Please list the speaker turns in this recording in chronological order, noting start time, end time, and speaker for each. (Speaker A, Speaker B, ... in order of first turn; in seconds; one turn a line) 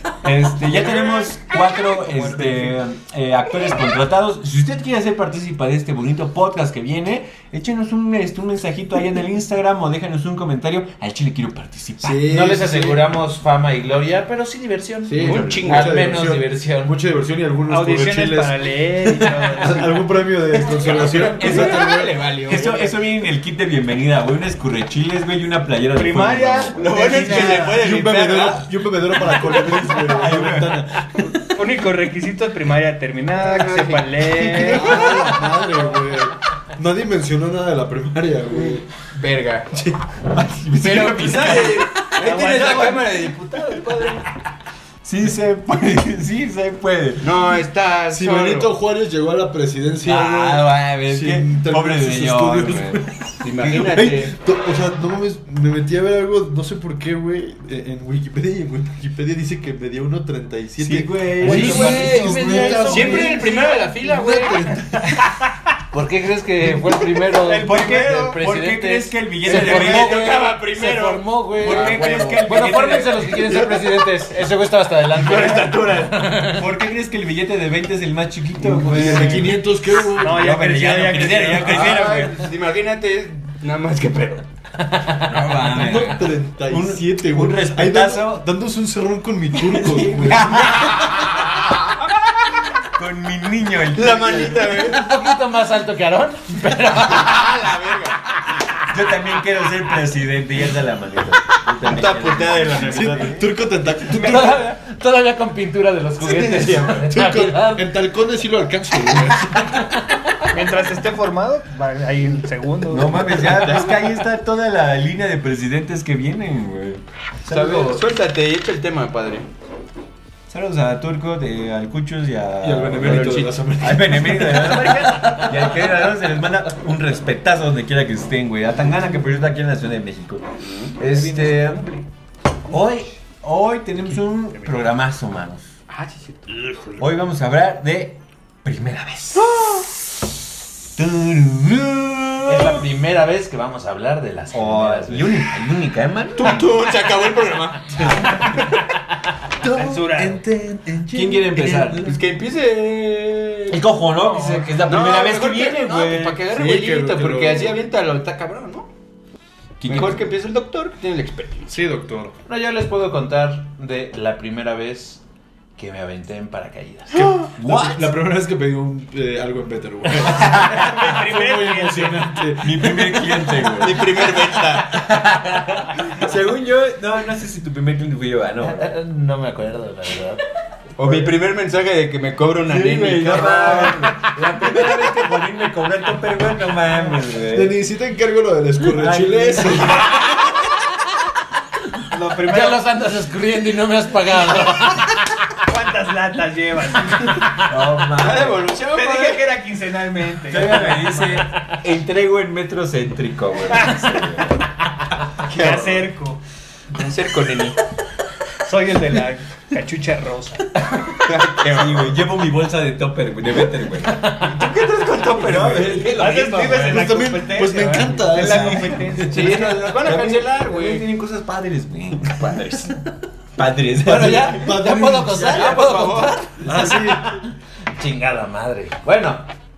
Speaker A: 0.2-12.2
Speaker B: 1.9-2.7
Speaker C: 12.0-13.1
Speaker D: 12.2-17.0
Speaker C: 15.1-18.6
Speaker E: 15.2-16.1
Speaker A: 15.2-15.6
Speaker B: 17.7-20.1
Speaker C: 19.6-22.1
Speaker E: 20.6-23.0
Speaker A: 21.0-27.8
Speaker B: 25.9-27.5
Speaker E: 26.8-28.7
Speaker C: 27.1-31.4
Speaker D: 27.2-27.6
Speaker A: 29.4-30.9
Speaker B: 31.5-35.2
Speaker E: 33.4-34.3
Speaker C: 34.3-38.9
Speaker A: 34.9-35.6
Speaker E: 39.1-39.8
Speaker A: 40.3-42.9
Speaker E: 40.8-44.2
Speaker B: 42.6-42.9
Speaker A: 45.0-47.3
Speaker E: 47.2-48.7
Speaker C: 48.1-53.1
Speaker A: 50.0-54.2
Speaker E: 53.4-54.3
Speaker C: 53.7-65.1
Speaker A: 60.8-63.3
Speaker D: 61.4-63.6
Speaker E: 61.4-64.9
Speaker D: 65.9-76.7
Speaker A: 67.4-70.4
Speaker E: 67.7-68.4
Speaker E: 69.4-72.8
Speaker A: 71.6-73.7
Speaker A: 75.1-82.5
Speaker E: 78.6-79.5
Speaker C: 78.7-80.5
Speaker B: 80.2-81.9
Speaker E: 81.5-84.5
Speaker D: 84.9-85.3
Speaker A: 85.2-88.5
Speaker C: 85.5-91.0
Speaker A: 89.5-91.5
Speaker A: 92.9-94.9
Speaker E: 94.0-95.0
Speaker D: 94.8-97.6
Speaker E: 97.1-98.2
Speaker A: 98.8-103.5
Speaker E: 101.8-103.4
Speaker C: 102.8-104.7
Speaker D: 104.0-107.9
Speaker C: 106.2-110.0
Speaker D: 109.2-110.5
Speaker B: 110.5-113.5
Speaker A: 112.9-118.1
Speaker E: 113.3-114.1
Speaker E: 117.5-119.5
Speaker A: 120.5-130.4
Speaker C: 122.6-125.0
Speaker E: 123.0-123.6
Speaker E: 130.6-131.0
Speaker A: 131.0-131.9
Speaker B: 131.0-132.1
Speaker A: 132.7-135.7
Speaker E: 135.9-137.0
Speaker A: 137.0-139.6
Speaker E: 139.4-139.8
Speaker A: 140.9-142.9
Speaker D: 142.4-145.6
Speaker A: 144.5-146.7
Speaker E: 146.3-148.8
Speaker B: 149.6-150.4
Speaker C: 149.6-151.9
Speaker A: 151.1-152.2
Speaker E: 151.5-153.8
Speaker A: 153.7-156.4
Speaker E: 154.8-158.9
Speaker C: 156.5-157.8
Speaker A: 159.8-160.2
Speaker E: 159.8-161.8
Speaker C: 161.7-162.4
Speaker D: 162.5-165.2
Speaker D: 165.8-167.5
Speaker C: 167.1-173.8
Speaker A: 167.6-168.1
Speaker B: 170.3-172.4
Speaker A: 172.6-178.9
Speaker E: 173.8-174.9
Speaker D: 178.6-180.4
Speaker E: 181.0-184.1
Speaker A: 182.7-187.8
Speaker C: 187.4-190.2
Speaker A: 188.8-190.2
Speaker B: 192.1-192.8
Speaker D: 192.4-195.5
Speaker B: 195.6-197.5
Speaker A: 197.6-198.7
Speaker E: 198.2-199.4
Speaker B: 198.9-201.4
Speaker A: 200.5-204.7
Speaker E: 205.4-206.1
Speaker B: 205.5-206.4
Speaker E: 206.9-207.8
Speaker B: 208.6-210.7
Speaker E: 211.1-212.2
Speaker A: 211.4-214.3
Speaker D: 214.1-214.6
Speaker E: 214.3-216.6
Speaker A: 215.3-217.0
Speaker B: 216.1-219.8
Speaker C: 216.6-219.6
Speaker E: 218.3-221.1
Speaker A: 218.4-222.9
Speaker E: 222.5-222.8
Speaker A: 223.6-224.7
Speaker C: 224.1-225.9
Speaker D: 224.1-229.4
Speaker E: 225.4-226.7
Speaker C: 226.6-227.4